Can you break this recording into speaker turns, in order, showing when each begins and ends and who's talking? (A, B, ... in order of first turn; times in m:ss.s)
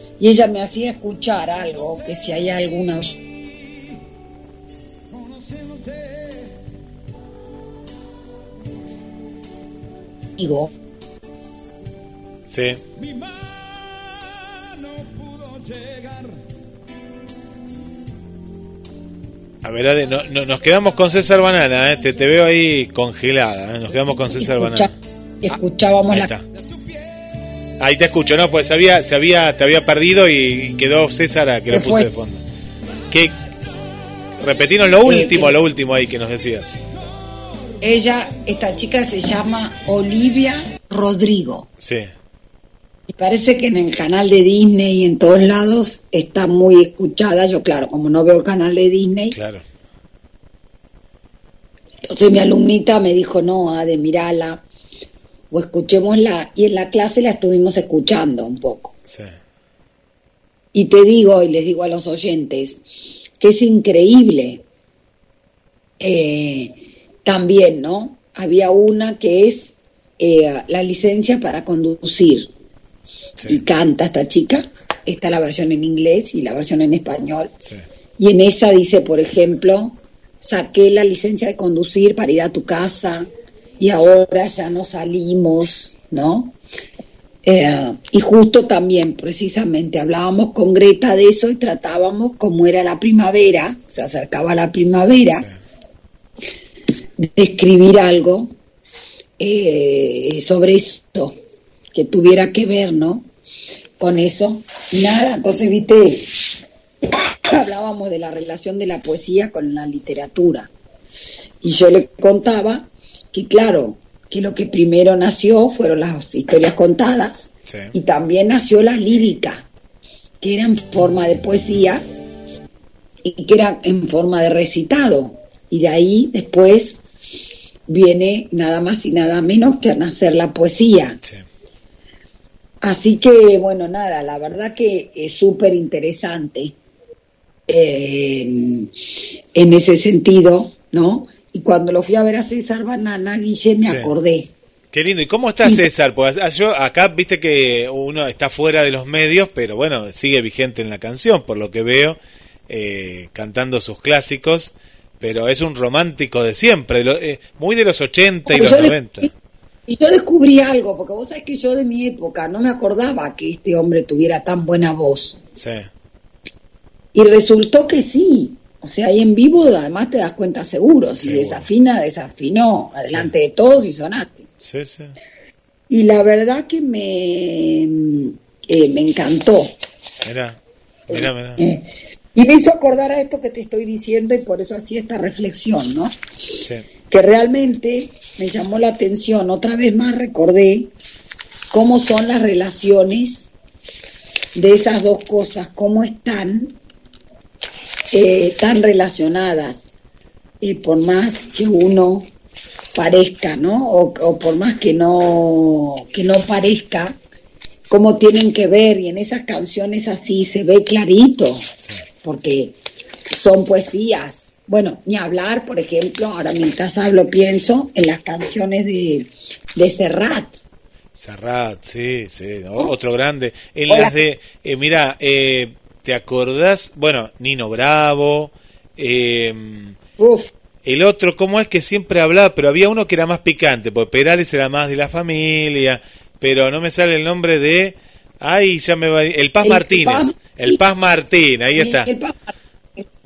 0:00.2-0:03.2 A
0:10.4-0:10.7 A
0:12.5-0:12.8 B
0:19.6-0:24.9 B
0:24.4-0:26.3 A
0:26.1-0:26.4 B
0:27.8-0:32.4 B
0:31.7-0:32.1 A
0:33.1-0:33.4 B
0:34.4-0:36.8 B
0:35.0-0:35.6 A
0:37.8-0:41.7 A
0:41.8-0:42.1 B
0:43.2-0:49.4 A
0:49.3-0:49.6 B
0:52.1-0:54.6 A
0:55.5-0:58.9 A
0:59.1-0:59.3 B
1:00.7-1:02.8 A
1:03.4-1:04.6 A
1:06.0-1:12.5 A
1:13.5-1:17.5 A
1:18.2-1:23.3 A
1:23.8-1:26.6 A
1:27.4-1:35.5 A
1:37.2-1:38.5 A
1:39.4-1:41.4 A
1:41.9-1:43.3 A
1:44.0-1:46.3 A
1:47.1-1:50.7 A
1:51.6-1:59.7 A
2:00.4-2:02.0 A
2:03.2-2:07.0 A
2:07.9-2:11.2 A
2:12.8-2:16.8 A
2:17.7-2:18.9 A
2:19.6-2:24.5 A
2:23.8-2:24.1 B
2:24.9-2:39.3 B
2:38.5-2:39.3 A
2:39.9-2:45.4 A
2:45.6-2:45.9 B
2:47.1-2:54.5 A
2:51.2-2:51.7 B
2:54.6-2:55.2 B
2:55.9-2:59.7 A
3:00.2-3:01.6 B
3:01.1-3:06.1 A
3:07.1-3:10.9 A
3:11.7-3:13.5 A
3:14.6-3:16.7 A
3:18.1-3:19.8 A
3:20.6-3:22.3 A
3:23.0-3:27.2 A
3:27.9-3:31.7 A
3:32.2-3:32.8 A
3:33.3-3:40.6 A
3:41.2-3:50.0 B
3:43.9-3:44.2 A
3:50.2-3:50.5 A
3:50.8-4:02.1 B
3:59.6-4:00.8 A
4:01.8-4:03.1 A